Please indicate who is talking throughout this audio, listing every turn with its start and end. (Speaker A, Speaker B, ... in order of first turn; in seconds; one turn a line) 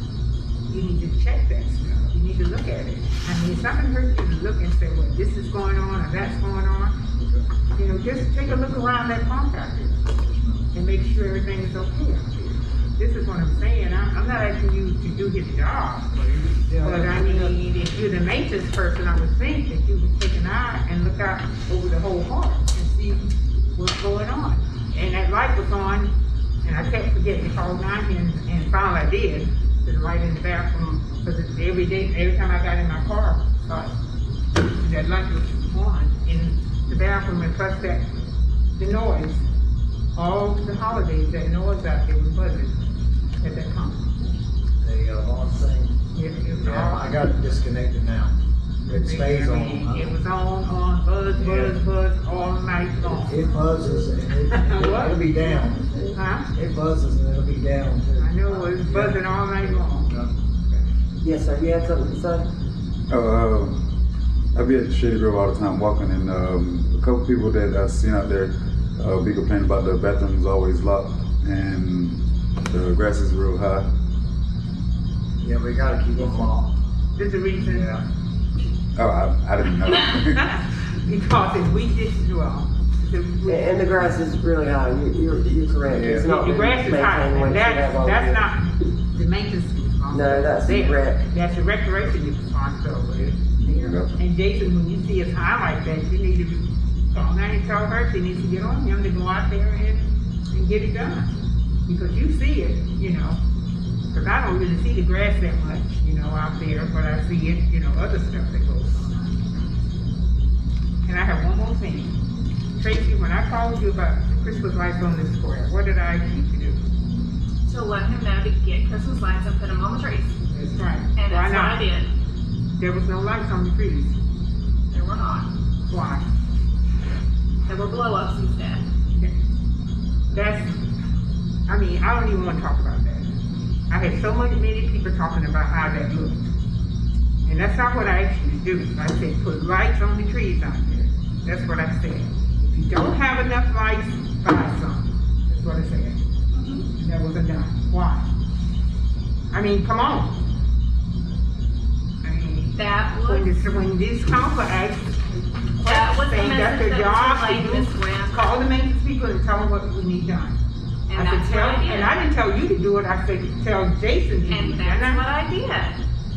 Speaker A: 0.7-7.0
Speaker B: 7.2-7.5
Speaker A: 7.8-10.0
Speaker B: 10.2-10.6
Speaker A: 10.7-16.3
Speaker B: 16.2-17.6
Speaker A: 16.8-26.1
Speaker A: 26.6-33.9
Speaker A: 34.7-38.0
Speaker A: 38.8-39.4
Speaker A: 40.2-42.9
Speaker A: 43.4-44.1
Speaker B: 44.8-46.0
Speaker A: 46.1-47.1
Speaker B: 46.6-50.1
Speaker A: 48.9-53.5
Speaker B: 51.4-51.8
Speaker B: 53.0-59.2
Speaker A: 54.5-55.6
Speaker A: 56.1-56.5
Speaker A: 58.2-60.1
Speaker B: 59.9-60.3
Speaker C: 61.2-62.5
Speaker D: 63.1-63.8
Speaker D: 64.5-73.9
Speaker B: 75.4-76.8
Speaker A: 77.2-77.9
Speaker B: 77.6-78.0
Speaker D: 79.0-80.5
Speaker A: 80.4-83.9
Speaker C: 83.5-88.4
Speaker B: 85.9-86.2
Speaker A: 86.2-101.3
Speaker C: 90.1-91.2
Speaker D: 93.6-94.1
Speaker A: 101.9-103.4
Speaker A: 104.1-109.3
Speaker A: 111.0-112.2
Speaker A: 112.8-116.8
Speaker E: 117.7-120.4
Speaker A: 120.5-121.8
Speaker E: 121.2-122.1
Speaker A: 122.8-124.2
Speaker E: 124.9-125.5
Speaker A: 125.9-126.3
Speaker E: 127.7-128.8
Speaker A: 130.3-130.8
Speaker A: 131.7-133.3
Speaker A: 133.9-136.5
Speaker A: 137.4-146.2
Speaker E: 146.5-146.9
Speaker A: 146.9-148.3
Speaker A: 149.5-150.4
Speaker A: 152.2-155.2
Speaker E: 152.7-153.5
Speaker A: 155.8-160.6
Speaker E: 155.8-158.4
Speaker E: 161.1-162.2
Speaker A: 161.2-165.2
Speaker E: 164.5-166.0